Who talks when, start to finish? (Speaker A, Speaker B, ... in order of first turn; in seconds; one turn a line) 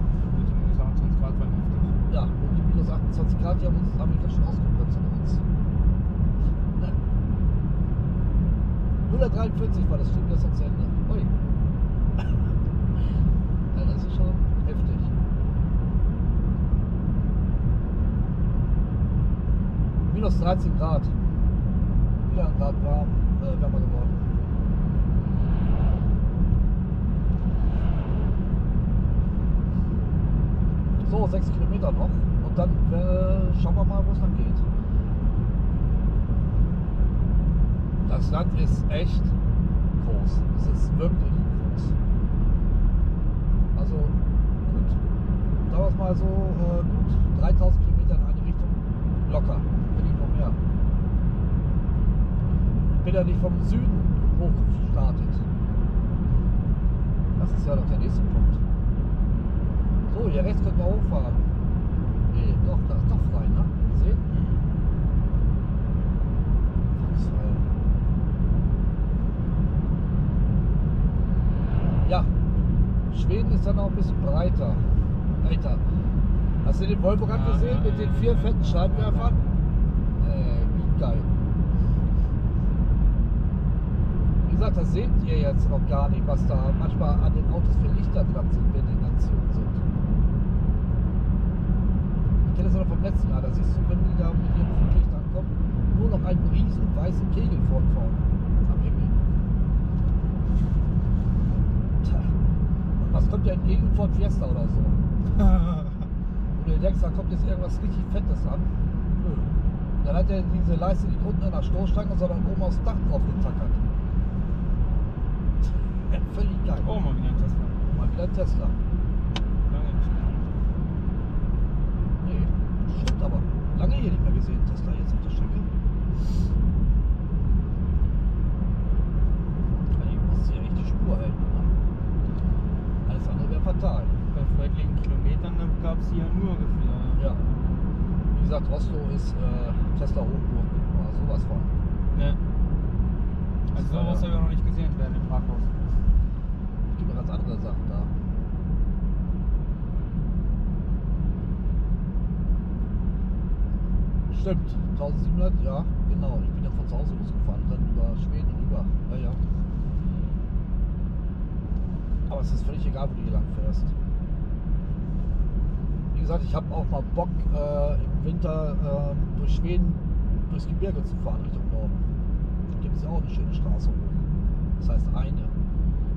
Speaker A: 0.2-2.0
Speaker B: 2.1-5.4
Speaker B: 9.1-11.3
Speaker B: 12.2-12.5
Speaker B: 13.7-15.1
Speaker B: 20.1-21.1
Speaker B: 22.2-24.1
Speaker B: 31.0-34.6
Speaker B: 38.0-39.4
Speaker B: 40.0-42.0
Speaker B: 43.7-45.0
Speaker B: 45.7-50.6
Speaker B: 52.8-55.4
Speaker B: 57.4-58.6
Speaker B: 60.1-61.4
Speaker B: 62.3-64.2
Speaker A: 64.3-64.8
Speaker B: 66.9-67.7
Speaker B: 72.0-72.3
Speaker B: 73.1-74.8
Speaker B: 75.4-75.8
Speaker B: 76.6-79.4
Speaker A: 77.2-79.7
Speaker B: 80.2-81.3
Speaker B: 84.5-89.8
Speaker B: 92.4-99.2
Speaker B: 102.0-102.3
Speaker B: 103.0-105.0
Speaker A: 105.6-105.8
Speaker B: 106.5-108.7
Speaker A: 109.2-109.5
Speaker B: 110.0-113.8
Speaker B: 116.1-117.0
Speaker A: 116.8-117.8
Speaker B: 117.9-118.8
Speaker A: 119.7-120.6
Speaker B: 122.2-125.7
Speaker B: 129.9-131.7
Speaker B: 133.1-134.2
Speaker A: 134.3-137.9
Speaker B: 137.2-137.4
Speaker B: 138.3-141.7
Speaker A: 142.1-142.4
Speaker B: 143.7-144.3
Speaker A: 143.7-146.1
Speaker B: 146.9-148.1
Speaker B: 154.3-159.4
Speaker B: 162.3-163.9
Speaker B: 166.1-172.0
Speaker B: 172.7-174.2
Speaker B: 174.8-175.5